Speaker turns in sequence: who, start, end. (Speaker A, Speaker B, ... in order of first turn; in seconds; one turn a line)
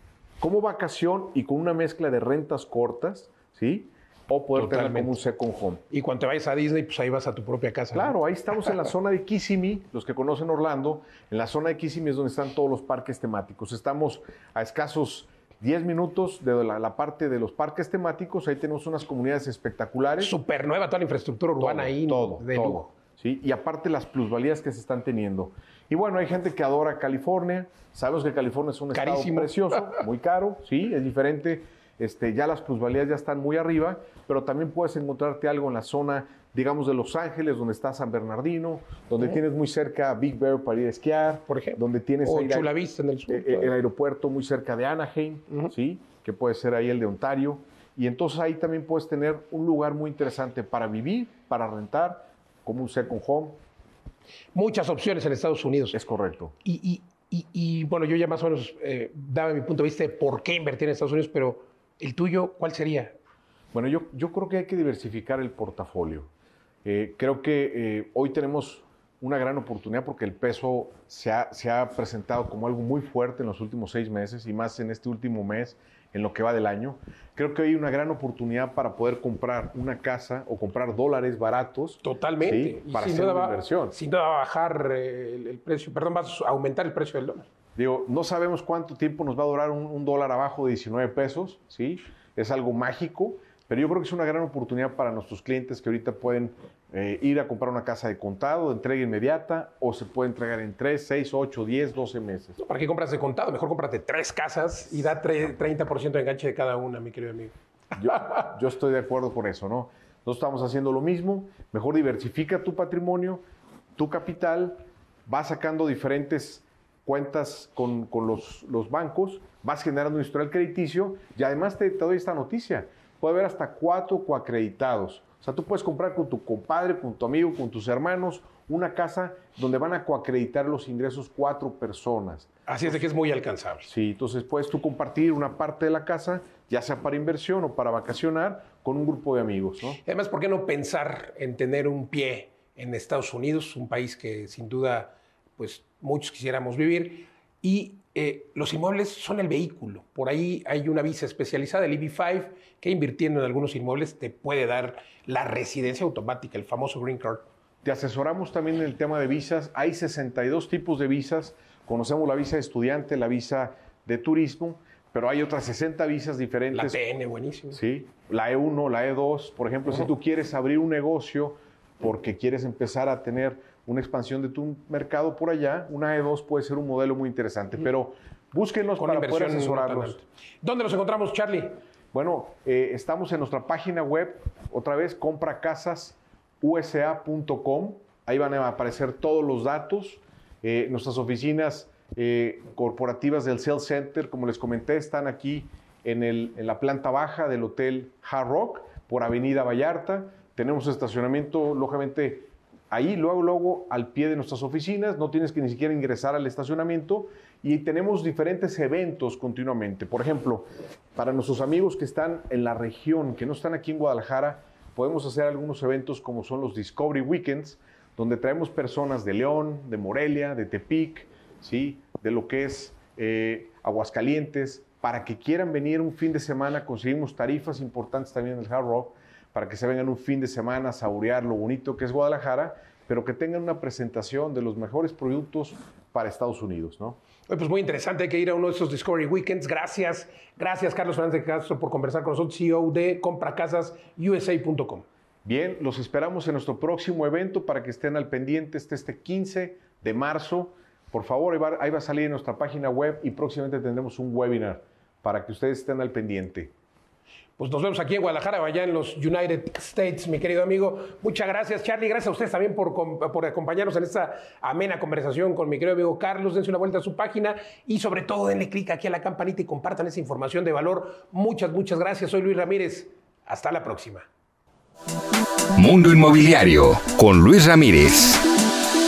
Speaker A: 0.4-5.8
Speaker B: 4.5-5.2
Speaker B: 5.9-8.7
Speaker A: 7.9-20.4
Speaker B: 20.2-22.9
Speaker A: 21.6-42.7
Speaker B: 28.9-29.9
Speaker B: 41.5-43.7
Speaker A: 43.3-53.6
Speaker B: 54.5-56.0
Speaker A: 55.9-56.5
Speaker B: 56.6-63.2
Speaker A: 63.7-66.3
Speaker A: 66.8-84.0
Speaker B: 82.0-87.5
Speaker A: 87.8-102.6
Speaker B: 102.6-107.5
Speaker A: 108.0-113.4
Speaker A: 114.0-133.0
Speaker B: 132.7-133.9
Speaker A: 133.9-140.0
Speaker B: 140.0-157.5
Speaker A: 157.8-167.0
Speaker B: 166.7-167.8
Speaker A: 167.7-180.2
Speaker B: 179.0-181.8
Speaker A: 182.1-237.2
Speaker B: 237.5-245.1
Speaker A: 245.4-256.7
Speaker B: 257.6-274.3
Speaker C: 275.8-278.4